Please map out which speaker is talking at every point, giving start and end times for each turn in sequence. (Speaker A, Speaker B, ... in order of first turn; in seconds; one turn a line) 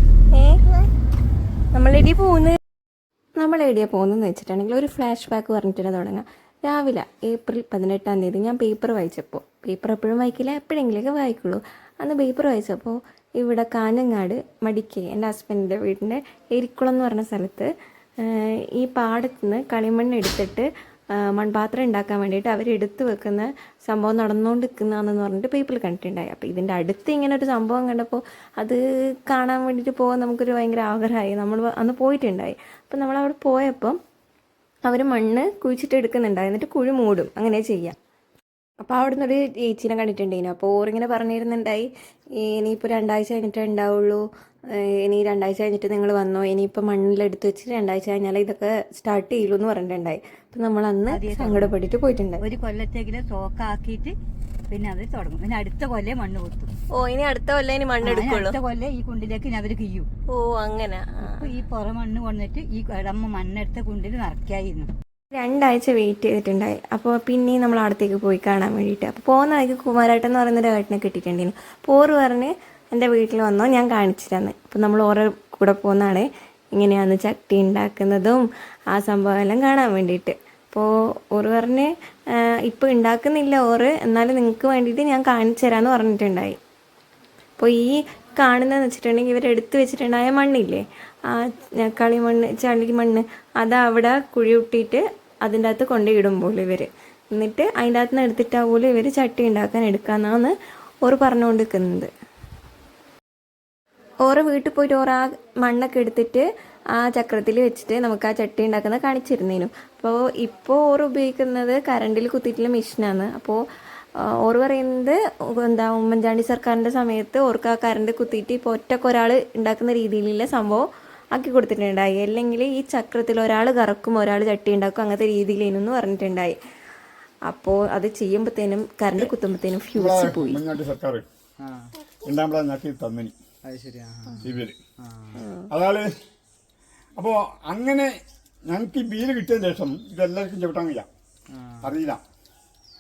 Speaker A: 0.3-0.6
Speaker A: 1.7-2.6
Speaker A: 3.4-17.7
Speaker A: 18.2-34.0
Speaker A: 34.9-38.0
Speaker A: 38.8-41.9
Speaker A: 42.4-52.4
Speaker B: 51.1-51.7
Speaker B: 52.4-54.1
Speaker B: 54.7-56.7
Speaker A: 56.9-58.6
Speaker B: 58.0-60.1
Speaker A: 60.3-61.5
Speaker B: 61.3-64.9
Speaker A: 65.3-86.6
Speaker A: 87.6-102.1
Speaker A: 104.2-113.6
Speaker A: 114.2-126.5
Speaker A: 127.5-130.6
Speaker C: 129.9-131.2
Speaker D: 131.6-131.9
Speaker C: 132.2-133.3
Speaker D: 133.6-135.4
Speaker C: 134.4-134.8
Speaker A: 135.3-135.7
Speaker C: 135.7-136.1
Speaker C: 137.2-138.2
Speaker C: 138.7-141.1
Speaker D: 141.5-141.9
Speaker C: 141.8-142.2